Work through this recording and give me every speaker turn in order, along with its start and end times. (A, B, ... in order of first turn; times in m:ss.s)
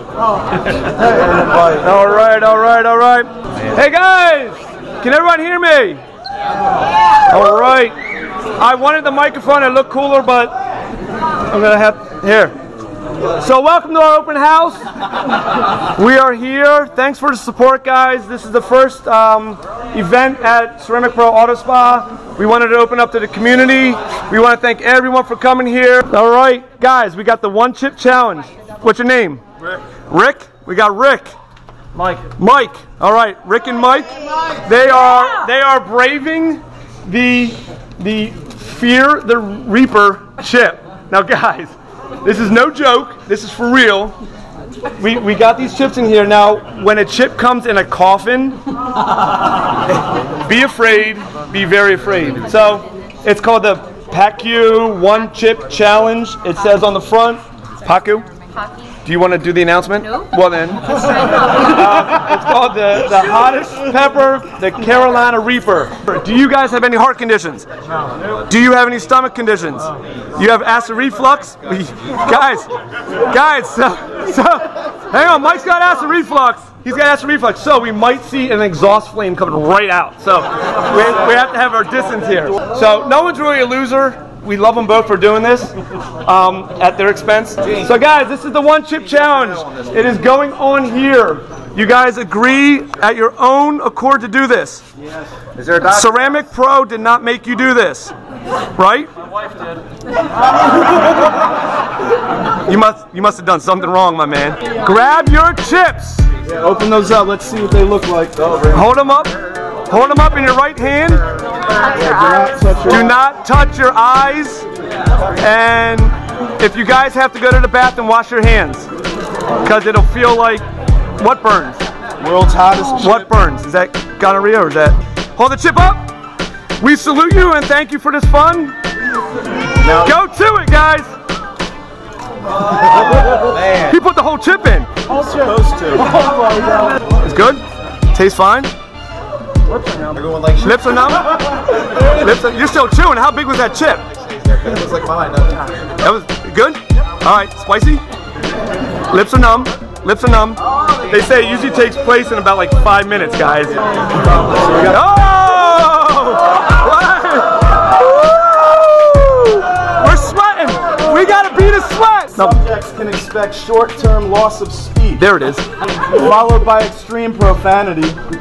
0:01.6-0:06.0 A
0:07.3-0:07.9 A
0:08.6-0:10.5 A
0:11.5-0:12.5 A
0:13.3-0:14.8 A
0:15.9-0:31.3 A
0:32.0-0:44.1 A
0:45.0-0:48.6 A
0:50.4-0:58.3 A
0:59.0-1:07.7 A
1:08.5-1:12.7 A
1:13.2-1:34.8 A
1:35.6-1:38.1 A
1:38.7-1:39.1 A
1:42.6-1:46.3 A
1:46.4-1:48.6 B
1:48.7-1:49.3 A
1:49.9-1:51.2 A
1:51.9-1:53.1 B
1:52.9-1:54.6 A
1:55.4-1:58.9 A
1:59.6-2:00.6 A
2:01.2-2:01.8 A
2:02.2-2:03.2 B
2:03.0-2:06.1 A
2:06.8-2:08.8 A
2:09.9-2:11.2 A
2:13.2-2:14.9 A
2:13.3-2:13.9 C
2:15.1-2:16.9 B
2:17.2-2:18.7 A
2:20.1-2:20.8 C
2:20.6-2:24.0 A
2:24.2-2:25.7 C
2:26.0-2:28.0 A
2:29.1-2:33.8 A
2:34.8-2:42.6 A
2:42.4-2:45.2 B
2:45.2-2:45.6 A
2:46.0-2:48.2 B